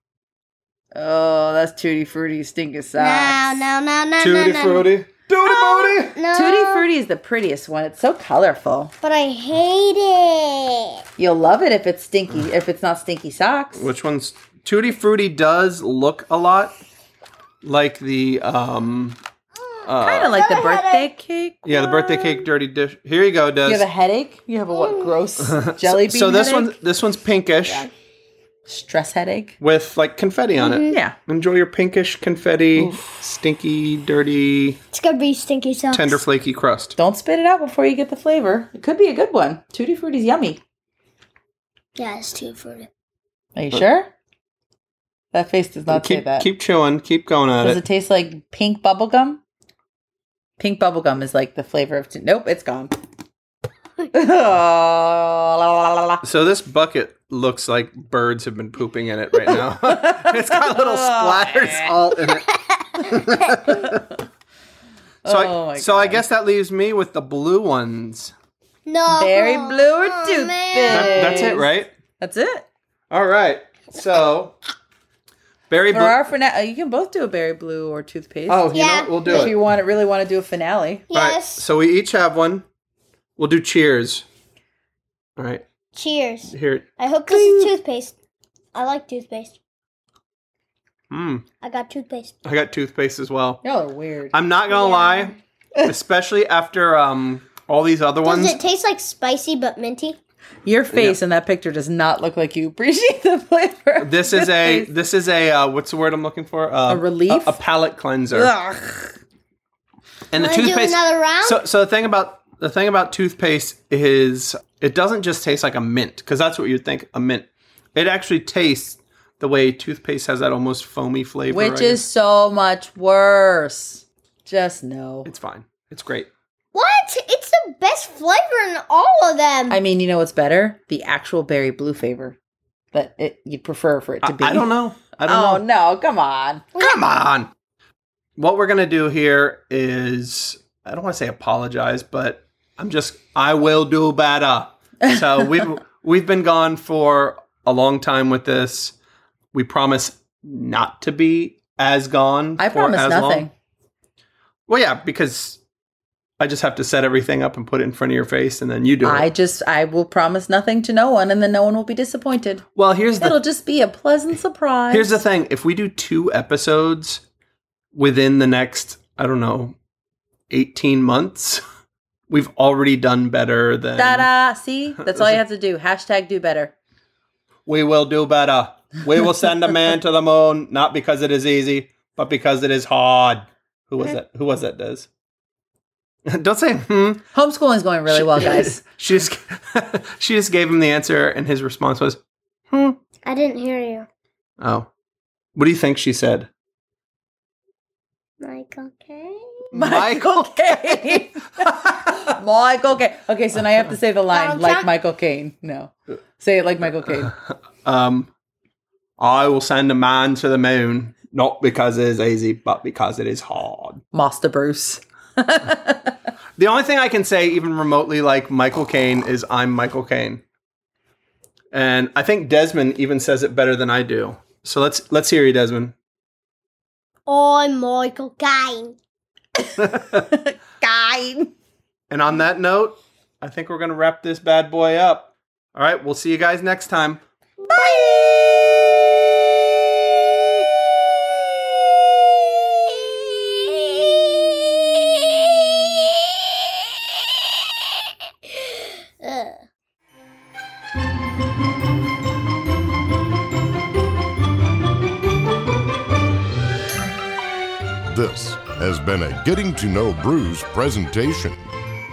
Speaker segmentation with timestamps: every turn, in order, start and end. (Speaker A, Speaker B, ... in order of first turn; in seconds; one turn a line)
Speaker A: 0.9-3.6
Speaker B: 3.0-4.9
Speaker C: 4.2-6.2
Speaker B: 5.5-6.9
Speaker A: 6.3-8.9
Speaker B: 9.0-10.9
Speaker A: 11.2-13.9
Speaker C: 13.8-16.8
Speaker C: 17.6-19.2
Speaker C: 19.9-20.3
Speaker B: 19.9-21.1
Speaker A: 20.0-22.5
Speaker C: 21.6-23.9
Speaker A: 23.7-26.8
Speaker B: 24.8-25.1
Speaker C: 25.4-27.9
Speaker A: 28.7-29.6
Speaker C: 29.6-34.8
Speaker B: 30.6-30.9
Speaker A: 30.9-31.1
Speaker A: 32.8-33.2
Speaker B: 34.9-36.2
Speaker C: 35.9-37.0
Speaker A: 37.0-40.6
Speaker B: 42.0-42.9
Speaker A: 43.6-44.1
Speaker A: 45.3-46.5
Speaker C: 45.9-47.8
Speaker A: 47.6-49.4
Speaker A: 50.6-52.9
Speaker A: 54.1-56.2
Speaker C: 56.2-64.0
Speaker A: 59.8-61.9
Speaker A: 63.1-64.0
Speaker A: 65.2-66.3
Speaker C: 65.3-68.3
Speaker B: 68.9-71.3
Speaker A: 69.1-72.7
Speaker C: 70.9-71.9
Speaker C: 73.1-74.6
Speaker C: 75.7-76.2
Speaker A: 75.9-78.7
Speaker C: 78.5-79.6
Speaker B: 78.7-79.5
Speaker A: 79.2-81.0
Speaker B: 81.1-81.6
Speaker C: 81.1-82.7
Speaker C: 83.4-84.2
Speaker C: 85.4-85.7
Speaker B: 85.9-88.2
Speaker C: 86.5-86.9
Speaker B: 88.8-89.6
Speaker C: 91.1-91.5
Speaker B: 91.6-92.3
Speaker C: 92.5-93.6
Speaker A: 93.6-94.4
Speaker C: 94.3-98.6
Speaker B: 94.7-95.3
Speaker B: 98.2-100.2
Speaker A: 100.7-104.9
Speaker C: 104.0-108.5
Speaker A: 106.9-107.6
Speaker A: 108.3-109.2
Speaker C: 110.3-122.1
Speaker B: 110.4-111.6
Speaker A: 121.5-125.3
Speaker C: 125.3-126.3
Speaker B: 126.7-129.8
Speaker A: 129.7-132.4
Speaker A: 132.9-134.7
Speaker C: 134.2-135.6
Speaker A: 135.2-136.6
Speaker B: 136.8-137.0
Speaker C: 136.8-137.5
Speaker C: 138.4-148.9
Speaker A: 145.0-145.7
Speaker C: 149.5-153.5
Speaker A: 152.6-153.5
Speaker C: 154.7-155.6
Speaker C: 156.4-159.3
Speaker A: 159.0-162.6
Speaker C: 162.8-163.4
Speaker A: 163.2-165.2
Speaker C: 164.9-167.2
Speaker C: 167.9-169.8
Speaker C: 170.5-171.6
Speaker C: 172.3-174.3
Speaker A: 173.9-176.7
Speaker C: 175.0-175.4
Speaker C: 177.7-185.1
Speaker C: 186.3-187.2
Speaker A: 187.3-188.8
Speaker C: 188.1-192.2
Speaker C: 192.7-193.0
Speaker B: 193.2-194.1
Speaker C: 194.6-194.9
Speaker C: 195.6-196.5
Speaker B: 198.4-199.7
Speaker C: 199.7-201.2
Speaker A: 199.7-207.3
Speaker B: 204.3-204.9
Speaker C: 207.8-208.3
Speaker C: 209.2-214.0
Speaker A: 214.1-216.2
Speaker C: 216.6-220.4
Speaker C: 221.7-225.9
Speaker B: 227.3-229.0
Speaker C: 229.8-230.2
Speaker A: 229.8-231.5
Speaker C: 232.1-237.2
Speaker B: 237.7-238.2
Speaker A: 237.8-238.3
Speaker B: 243.6-244.2
Speaker B: 245.2-246.1
Speaker B: 249.2-249.6
Speaker D: 258.1-261.7